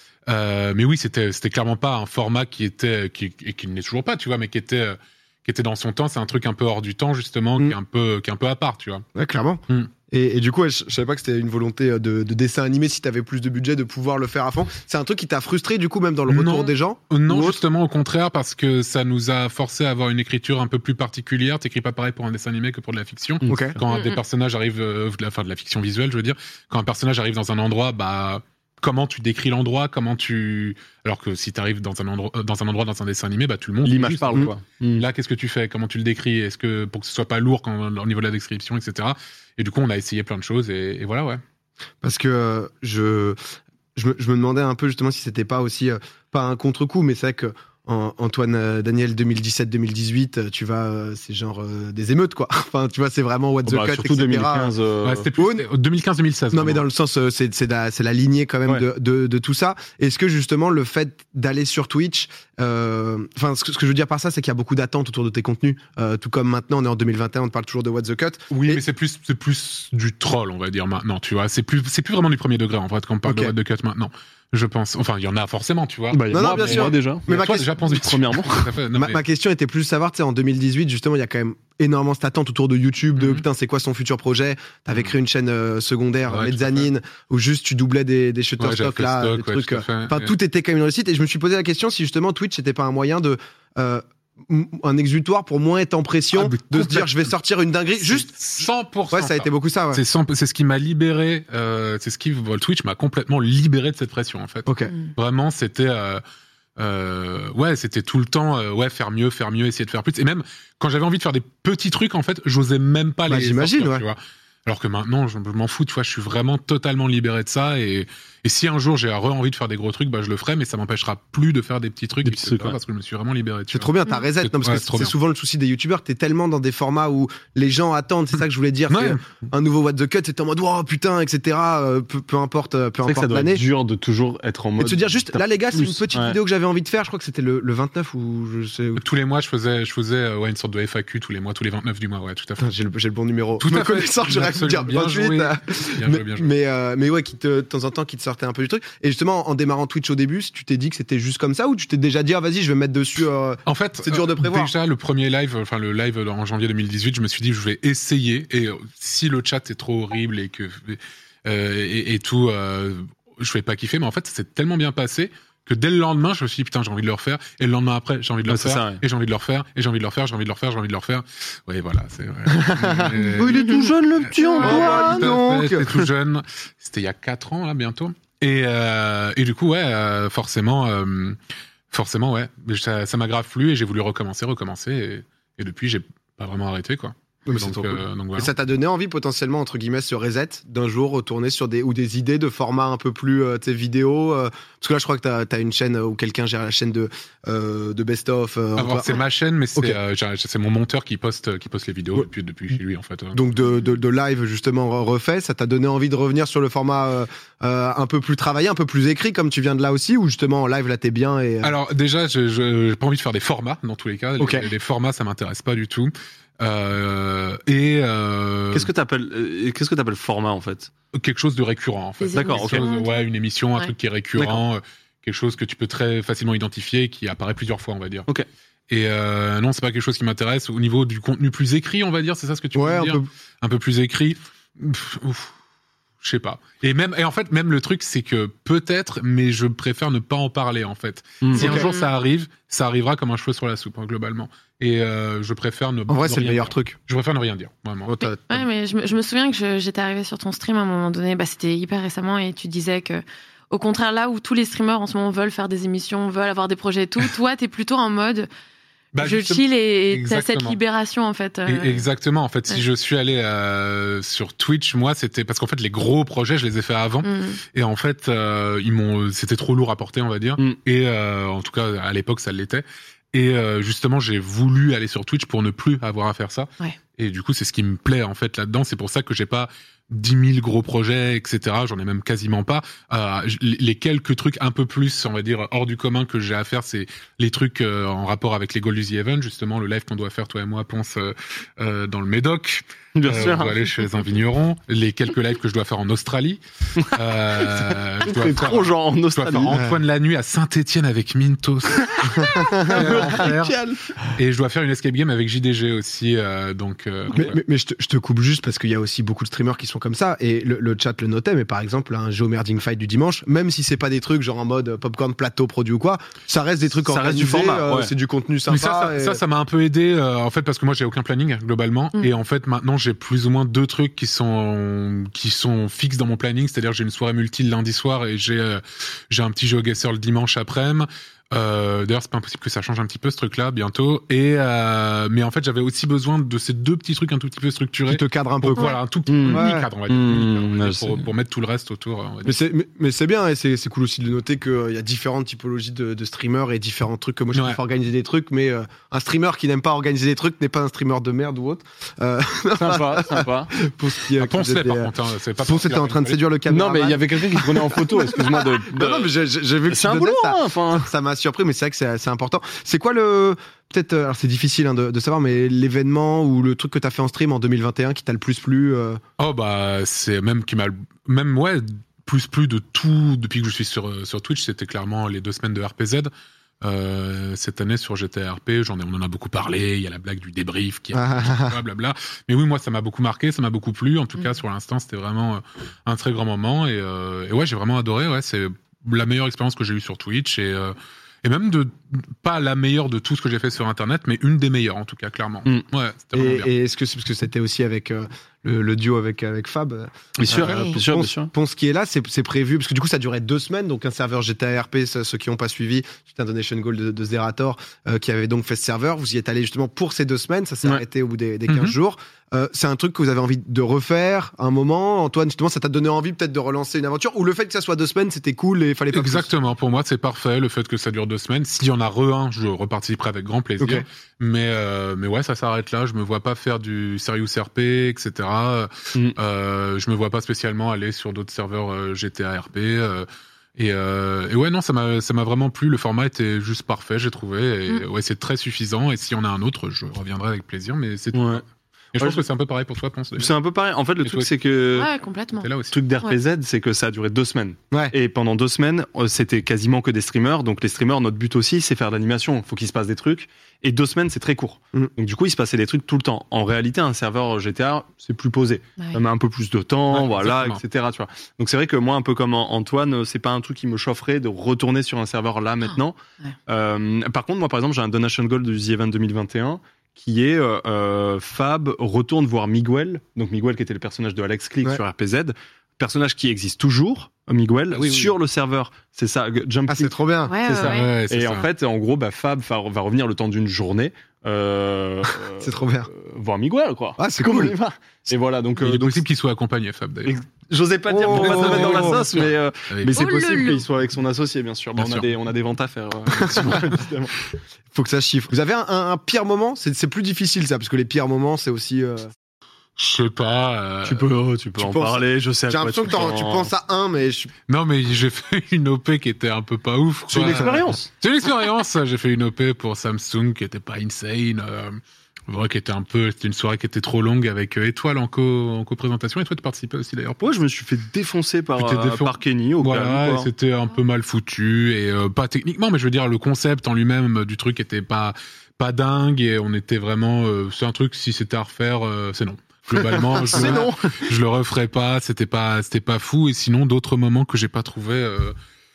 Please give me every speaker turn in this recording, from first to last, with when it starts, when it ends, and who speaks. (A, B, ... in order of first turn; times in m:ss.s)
0:00.3-0:09.0 A
0:09.1-0:17.6 B
0:16.3-0:41.4 A
0:23.4-0:23.8 B
0:33.8-0:35.0 C
0:42.0-0:43.4 B
0:44.0-0:54.7 B
0:53.6-0:55.3 C
0:55.0-0:56.8 A
0:55.4-0:55.6 B
0:56.5-1:08.8 B
1:08.5-1:19.2 A
1:13.2-1:13.6 B
1:16.1-1:18.7 C
1:16.3-1:17.9 B
1:18.8-1:40.0 B
1:23.2-1:23.4 A
1:26.3-1:26.9 A
1:28.6-1:30.3 A
1:36.3-1:37.3 A
1:38.0-1:46.2 A
1:44.6-1:45.0 B
1:46.8-2:05.1 A
1:53.3-1:54.0 B
2:02.2-2:02.8 C
2:03.7-2:13.6 B
2:08.9-2:09.2 A
2:13.0-2:16.4 C
2:14.8-2:19.0 B
2:19.0-2:22.7 A
2:22.6-2:34.7 B
2:23.6-2:26.5 A
2:33.6-2:53.6 A
2:48.4-2:49.0 C
2:52.5-2:53.2 B
2:53.4-2:55.3 C
2:53.6-2:53.8 D
2:54.2-3:01.4 A
2:54.6-2:56.1 B
3:01.9-3:08.5 A
3:07.4-3:20.0 B
3:18.8-3:23.4 A
3:23.3-3:31.7 B
3:31.6-3:38.9 A
3:34.4-3:34.7 B
3:38.7-3:40.9 C
3:41.1-3:48.3 A
3:42.2-3:43.1 D
3:42.3-3:42.9 C
3:44.4-3:44.6 C
3:48.9-3:55.5 A
3:52.7-3:53.3 B
3:56.2-4:08.2 A
4:01.4-4:01.8 C
4:01.5-4:01.9 B
4:01.7-4:02.0 D
4:06.1-4:07.0 B
4:08.0-4:08.6 B
4:08.2-4:18.5 D
4:19.1-4:20.8 A
4:19.2-4:22.1 D
4:21.6-5:03.8 A
4:27.2-4:27.6 D
4:53.1-4:54.0 C
4:57.0-4:59.8 C
4:59.7-5:00.0 B
5:01.9-5:04.1 C
5:02.4-5:03.3 B
5:04.4-5:07.6 A
5:07.3-5:19.4 B
5:17.0-5:18.1 C
5:18.7-5:42.6 A
5:38.1-5:38.9 B
5:39.3-5:41.2 C
5:39.5-5:39.9 B
5:42.4-6:09.2 B
5:47.5-5:47.8 A
5:52.7-5:53.7 C
5:54.4-5:56.4 A
5:56.7-5:59.3 C
5:59.9-6:01.1 C
6:09.4-6:16.3 A
6:16.8-6:36.7 A
6:21.1-6:21.8 B
6:36.3-6:59.5 B
6:40.4-6:41.5 C
6:40.4-6:40.8 A
6:51.7-6:52.0 A
6:59.1-7:13.2 A
7:03.8-7:04.0 B
7:13.8-7:23.6 A
7:21.3-7:21.6 C
7:23.4-7:25.1 C
7:24.2-7:24.9 A
7:24.9-7:25.7 D
7:25.6-7:26.0 A
7:25.8-8:09.3 C
7:40.1-7:40.8 A
7:58.0-7:58.3 A
7:59.9-8:00.6 B
8:00.5-8:01.1 D
8:00.8-8:01.7 A
8:05.6-8:06.1 B
8:07.2-8:07.7 B
8:08.8-8:10.4 A
8:10.2-8:17.3 C
8:11.1-8:12.2 B
8:11.3-8:13.2 A
8:13.2-8:13.8 D
8:14.9-8:15.3 A
8:16.4-8:16.9 B
8:17.9-8:22.2 B
8:23.0-8:24.3 A
8:24.0-8:26.7 C
8:24.8-8:27.5 B
8:27.7-8:35.0 A
8:30.3-8:31.1 C
8:30.4-8:30.8 B
8:35.5-8:40.4 A
8:40.4-8:43.5 C
8:41.8-8:58.5 A
8:53.1-8:53.9 B
8:53.4-8:54.2 C